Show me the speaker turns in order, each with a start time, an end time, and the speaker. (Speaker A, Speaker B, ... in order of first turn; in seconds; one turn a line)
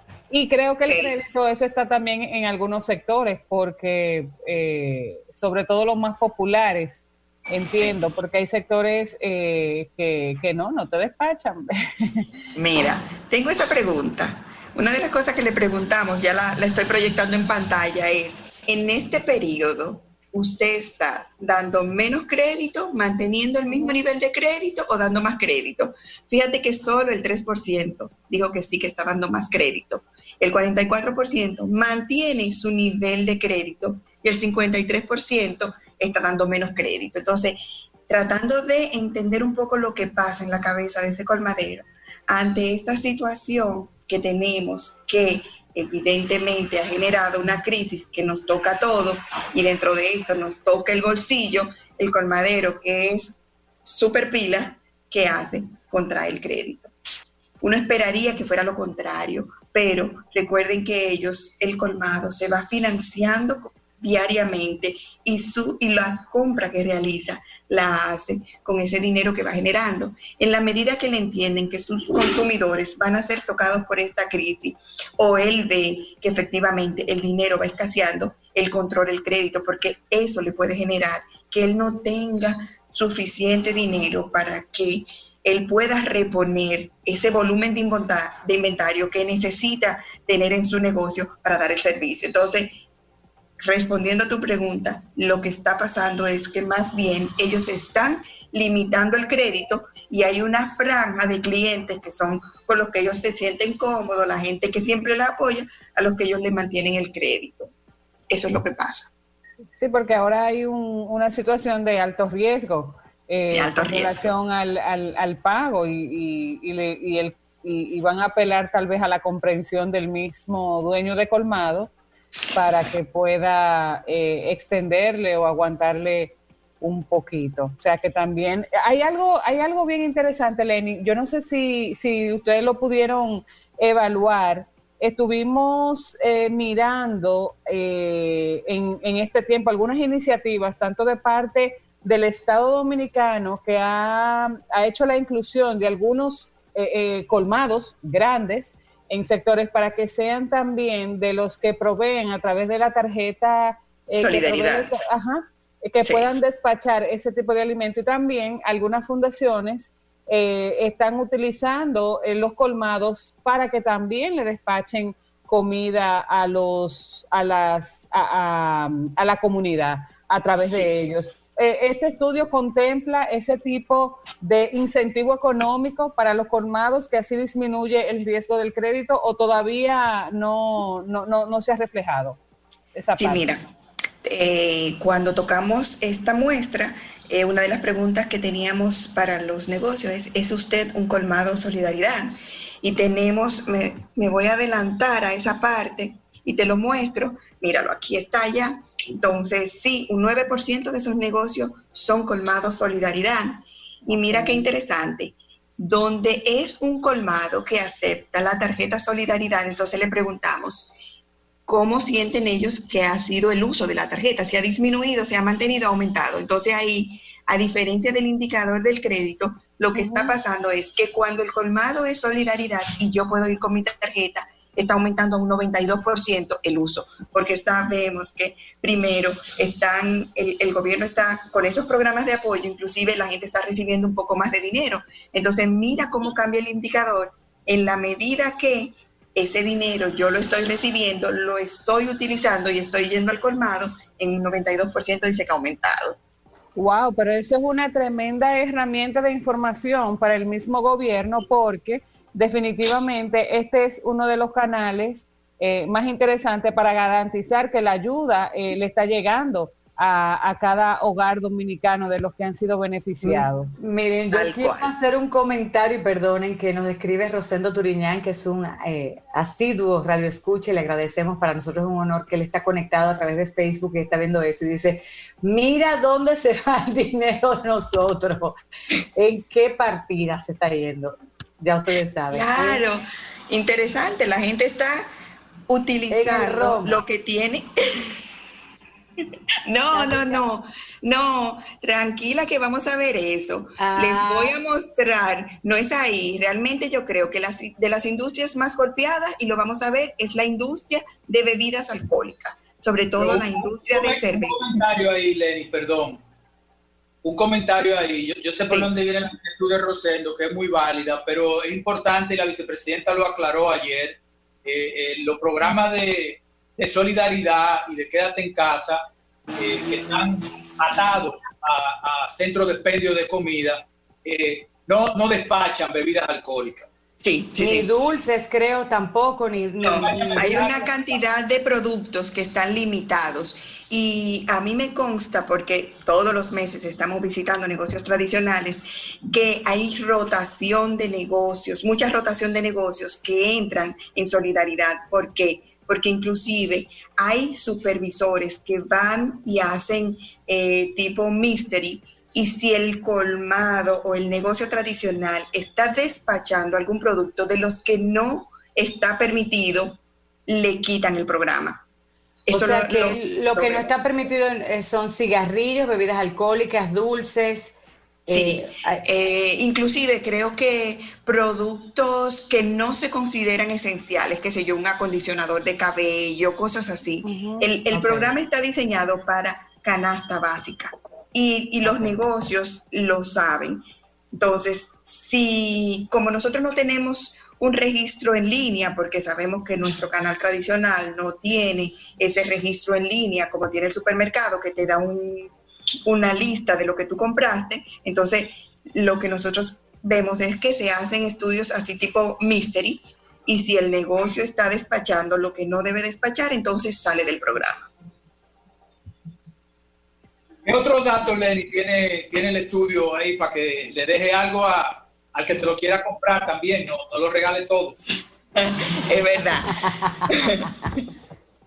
Speaker A: 0.3-12.3
Speaker B: 0.9-1.1
Speaker B: 7.7-8.0
Speaker B: 12.6-56.9
Speaker B: 57.6-92.8
Speaker B: 93.6-107.7
Speaker B: 108.3-109.1
Speaker A: 109.8-121.9
Speaker B: 113.5-114.3
Speaker B: 122.5-122.8
Speaker A: 122.5-182.4
Speaker B: 154.1-154.9
Speaker B: 156.0-156.4
Speaker A: 182.9-183.5
Speaker B: 183.2-183.6
Speaker B: 184.2-210.9
Speaker B: 211.7-246.2
Speaker A: 219.9-220.3
Speaker A: 246.8-263.7
Speaker C: 263.2-278.6
Speaker B: 264.3-264.9
Speaker C: 279.1-282.8
Speaker B: 282.3-285.1
Speaker B: 285.7-288.1
Speaker C: 286.1-287.0
Speaker B: 289.6-304.8
Speaker C: 289.9-290.5
Speaker C: 293.8-294.6
Speaker D: 303.2-306.2
Speaker D: 307.2-326.9
Speaker B: 308.7-309.0
Speaker B: 327.2-327.9
Speaker C: 327.6-330.8
Speaker B: 329.8-361.8
Speaker D: 329.9-330.9
Speaker B: 362.5-364.0
Speaker C: 362.5-367.7
Speaker C: 368.3-369.0
Speaker B: 368.3-395.5
Speaker C: 377.2-378.4
Speaker C: 381.8-382.1
Speaker B: 396.1-407.9
Speaker D: 410.6-418.0
Speaker B: 418.6-421.0
Speaker C: 419.8-420.2